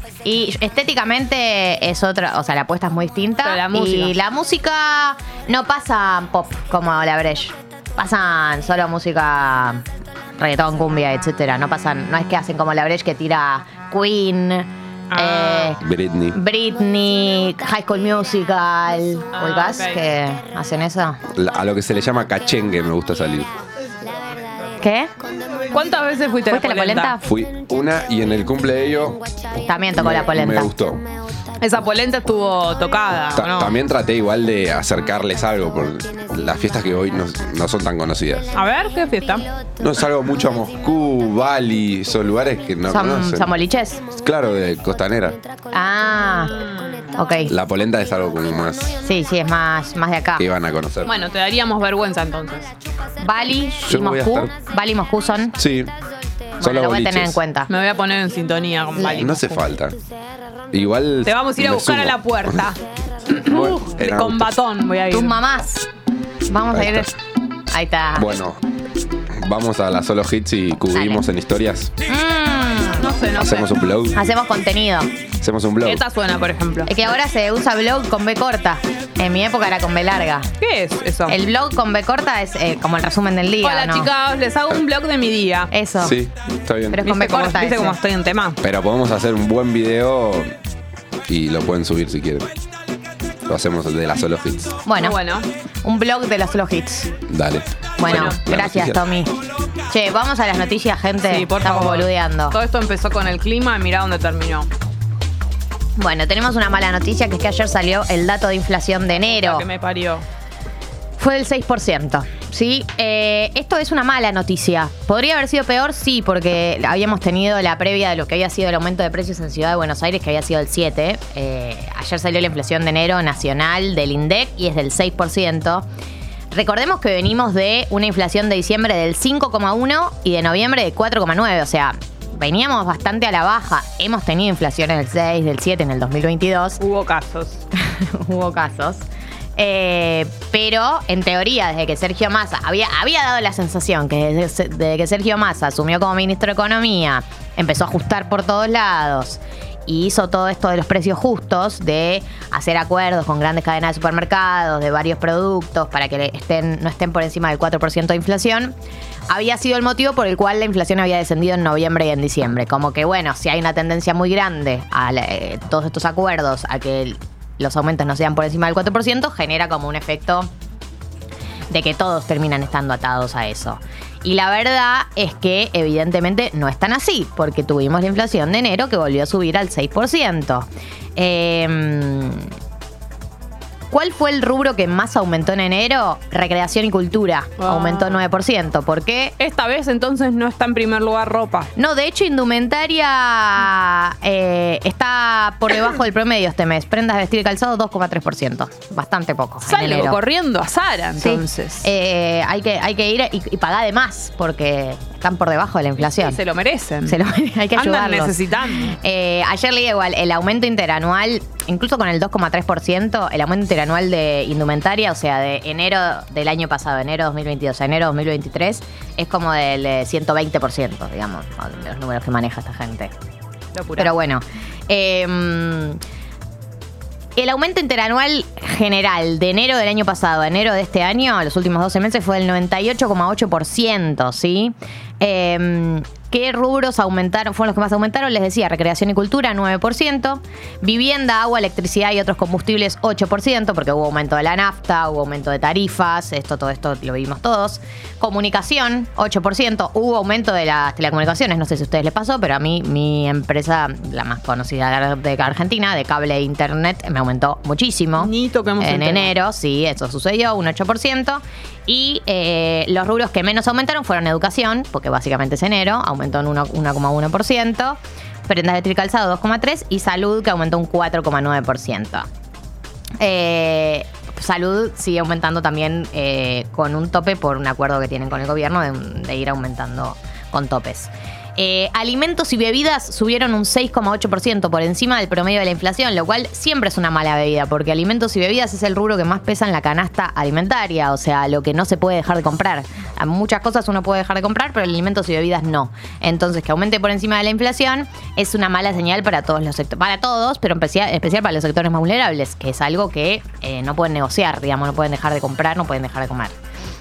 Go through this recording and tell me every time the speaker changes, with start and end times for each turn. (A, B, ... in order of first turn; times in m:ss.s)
0:00.2-0:09.8 A
0:03.4-0:04.2 B
0:10.4-0:15.8 A
0:15.1-0:15.7 B
0:15.8-0:16.4 C
0:16.3-0:21.2 A
0:19.3-0:20.0 B
0:21.3-0:23.5 C
0:24.8-0:25.1 A
0:25.7-0:27.1 B
0:26.5-0:27.2 A
0:27.2-0:29.3 C
0:29.6-0:30.7 A
0:30.0-0:31.0 C
0:31.6-0:33.8 B
0:33.4-0:38.5 C
0:38.5-0:39.4 B
0:39.8-0:45.4 C
0:42.9-0:44.0 A
0:45.7-0:46.5 A
0:46.4-0:47.1 B
0:47.1-0:47.5 A
0:47.5-0:49.0 C
0:49.0-0:50.5 A
0:50.4-0:51.1 C
0:51.0-0:52.7 B
0:53.2-0:55.5 A
0:53.8-0:54.5 C
0:55.6-0:55.9 C
0:56.6-0:57.4 C
0:56.6-0:57.7 A
0:57.7-0:59.5 B
0:59.0-0:59.4 A
0:59.0-1:00.0 C
1:00.7-1:02.7 C
1:01.2-1:02.8 B
1:03.3-1:05.4 B
1:03.4-1:04.5 C
1:05.1-1:05.8 A
1:06.5-1:07.1 A
1:06.7-1:07.1 C
1:07.7-1:08.3 A
1:08.2-1:08.6 C
1:09.4-1:11.9 C
1:10.9-1:11.2 A
1:12.1-1:15.1 A
1:13.0-1:13.6 B
1:13.3-1:14.2 C
1:15.4-1:16.0 C
1:15.8-1:17.2 B
1:16.9-1:20.5 A
1:20.6-1:21.4 B
1:21.3-1:24.1 A
1:23.6-1:25.7 B
1:25.7-1:26.1 A
1:26.0-1:27.0 C
1:26.9-1:28.0 A
1:27.0-1:28.6 B
1:28.6-1:30.5 C
1:31.3-1:32.5 C
1:33.4-1:34.8 C
1:34.8-1:35.2 A
1:35.0-1:35.4 B
1:35.8-1:37.1 A
1:37.3-1:39.0 C
1:38.0-1:39.3 A
1:38.0-1:38.4 B
1:39.9-1:42.6 A
1:41.2-1:44.7 B
1:46.0-1:49.6 A
1:49.2-1:50.2 B
1:51.2-2:05.9 A
2:06.5-2:16.8 A
2:16.8-2:17.6 B
2:17.7-2:38.8 A
2:39.3-2:50.5 A
2:51.7-3:02.5 A
3:03.9-3:09.3 A
3:07.6-3:08.2 B
3:09.4-3:11.7 B
3:11.8-3:20.2 A
3:19.6-3:21.9 B
3:21.2-3:26.4 A
3:26.2-3:27.2 B
3:27.0-3:43.1 A
3:27.7-3:29.0 B
3:43.7-3:44.1 B
3:44.0-3:46.0 A
3:47.4-4:32.3 A
4:18.2-4:19.3 B
4:33.2-5:06.5 A